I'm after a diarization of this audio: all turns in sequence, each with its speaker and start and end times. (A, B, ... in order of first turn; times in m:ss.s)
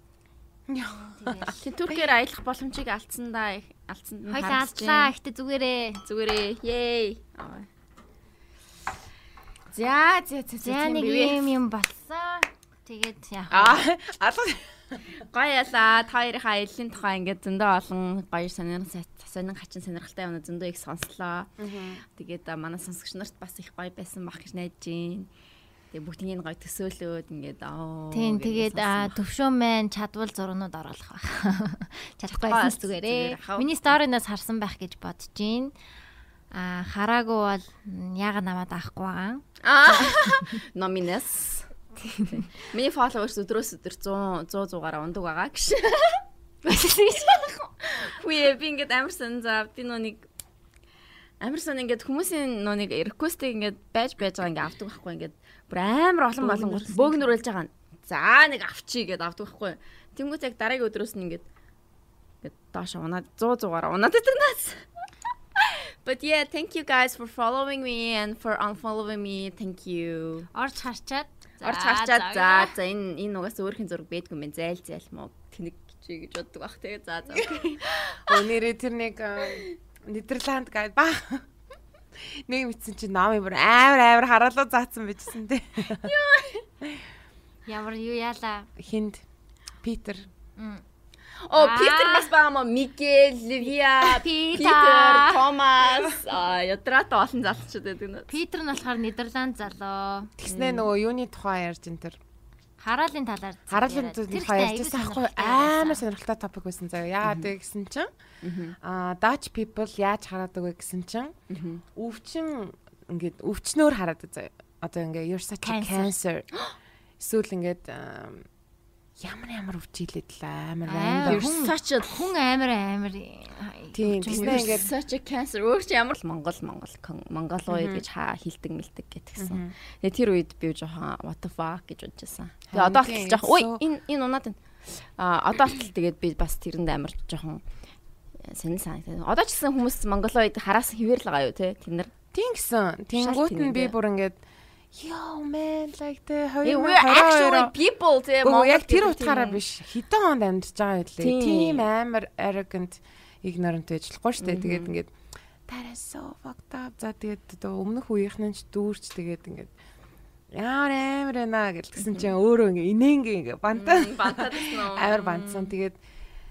0:00.7-0:02.0 A
0:01.0-0:01.6 B
0:01.6-0:05.1 C
0:04.3-0:06.0 B
0:06.0-0:07.7 C
0:09.7-0:11.6 C
0:10.6-0:13.8 B
0:13.5-0:15.0 A
0:15.2-0:21.5 C
0:21.6-0:22.0 A
0:22.1-0:25.3 C
0:25.9-0:29.2 C
0:28.1-0:35.7 B
0:32.3-0:33.7 C
0:36.5-0:40.6 B
0:39.6-0:41.7 C
0:42.0-0:42.5 B
0:42.3-0:46.2 C
0:46.6-0:48.0 B
0:47.1-0:50.3 C
0:51.4-1:01.5 C
0:56.4-0:57.4 B
1:02.4-1:04.9 C
1:05.6-1:10.5 C
1:10.5-1:12.7 B
1:11.6-1:17.7 C
1:17.4-1:18.2 B
1:18.3-1:21.4 A
1:22.2-1:26.1 A
1:26.0-1:26.6 B
1:27.7-1:28.7 B
1:28.8-1:29.2 A
1:29.8-1:30.3 A
1:30.6-1:30.8 B
1:31.4-1:38.3 C
1:31.6-1:32.3 B
1:34.0-1:35.4 B
1:38.3-1:40.3 B
1:40.4-1:42.2 A
1:40.5-1:40.9 C
1:42.8-1:46.0 B
1:43.7-1:48.1 A
1:48.4-1:48.8 C
1:48.8-1:51.4 A
1:51.5-1:51.8 C
1:52.0-1:56.5 A
1:55.6-1:56.1 B
1:57.2-1:58.5 A
1:59.2-2:01.5 A
2:00.8-2:04.9 B
2:01.2-2:02.2 C
2:04.0-2:04.9 A
2:04.3-2:17.6 C
2:07.7-2:08.0 A
2:09.4-2:09.7 A
2:12.7-2:13.8 A
2:18.4-2:22.1 C
2:22.3-2:24.4 A
2:23.2-2:24.0 C
2:24.9-2:27.8 A
2:26.6-2:29.6 C
2:28.4-2:35.1 A
2:31.2-2:31.9 C
2:34.4-2:34.9 C
2:35.7-2:39.7 A
2:40.5-2:46.0 A
2:42.0-2:42.3 C
2:43.7-2:45.8 C